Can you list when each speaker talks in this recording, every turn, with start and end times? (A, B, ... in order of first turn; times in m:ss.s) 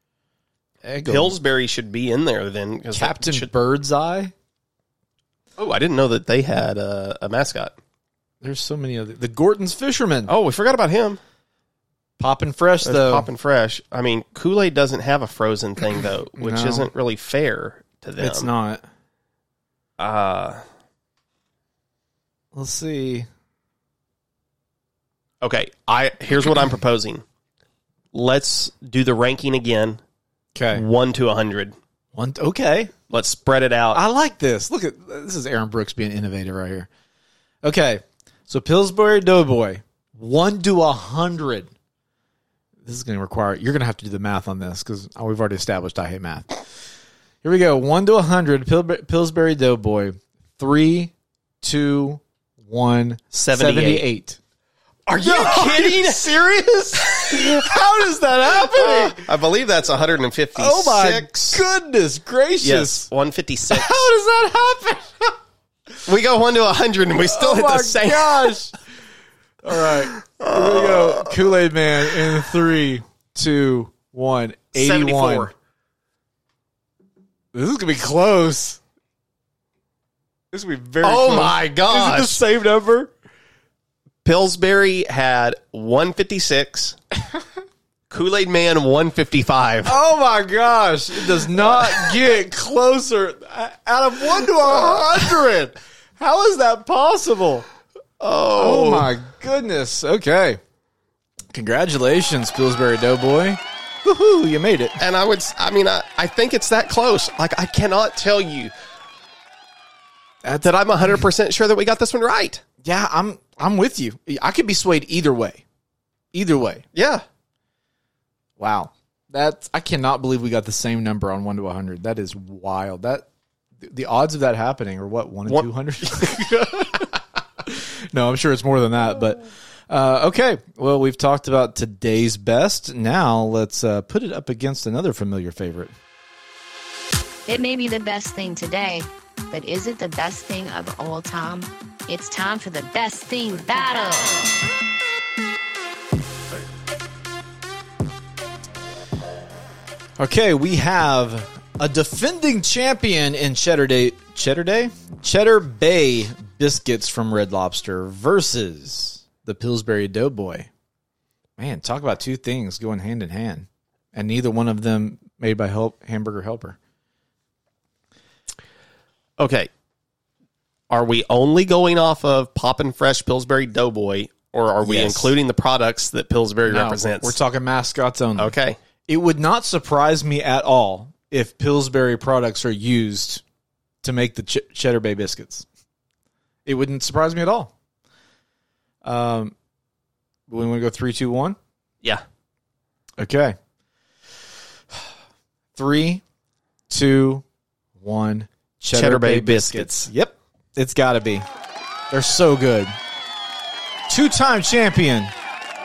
0:00.8-0:01.4 A
0:01.1-0:03.5 B
0:02.9-0:04.3 A
0:05.6-0:07.7 B
0:08.4-0:10.3 A
0:10.3-0:11.2 B
0:12.2-0:13.3 A
0:12.8-0:18.5 B
0:16.4-0:16.9 A
0:18.2-0:18.9 A
0:20.0-0:20.6 B
0:22.5-0:23.3 A
0:25.4-0:27.2 B
0:28.1-0:30.0 B
0:30.6-0:30.8 A
0:30.7-0:31.8 B
0:32.1-0:32.9 A
0:33.1-0:34.0 B
0:33.9-0:36.9 A
0:37.6-0:41.7 A
0:42.8-0:46.6 A
0:47.4-0:54.4 A
0:53.3-0:54.1 B
0:55.1-0:56.4 B
0:55.2-0:59.2 A
0:57.0-0:57.8 B
0:58.6-1:01.6 B
1:00.6-1:03.1 A
1:02.6-1:04.0 B
1:03.7-1:05.4 A
1:06.0-1:08.7 B
1:07.2-1:08.8 A
1:09.6-1:15.5 A
1:09.7-1:11.5 B
1:14.8-1:15.5 B
1:17.5-1:18.8 A
1:20.5-1:23.1 A
1:21.0-1:22.4 B
1:24.2-1:27.0 B
1:28.1-1:30.0 B
1:29.8-1:37.7 A
1:31.6-1:32.0 B
1:34.6-1:35.2 B
1:38.2-1:39.1 B
1:38.6-1:40.6 A
1:41.5-1:45.0 A
1:45.0-1:48.7 B
1:50.6-1:52.6 B
1:52.8-1:55.6 A
1:56.3-1:56.8 A
1:57.0-1:57.2 B
1:58.6-2:03.3 A
2:03.8-2:15.9 A
2:05.5-2:06.4 B
2:17.5-2:24.5 C
2:30.2-2:40.7 A
2:41.6-2:46.8 A
2:49.4-2:49.7 B
2:50.9-2:57.4 B
2:54.8-2:55.4 A
2:56.7-2:58.6 A
2:58.4-2:58.8 B
2:59.1-3:03.4 A
3:04.0-3:05.7 A
3:06.7-3:07.7 A
3:09.0-3:09.5 A
3:10.5-3:11.6 A
3:13.2-3:13.6 A
3:15.8-3:16.2 A
3:16.9-3:17.4 A
3:18.0-3:21.5 A
3:18.9-3:20.1 B
3:22.1-3:23.0 A
3:24.1-3:25.3 A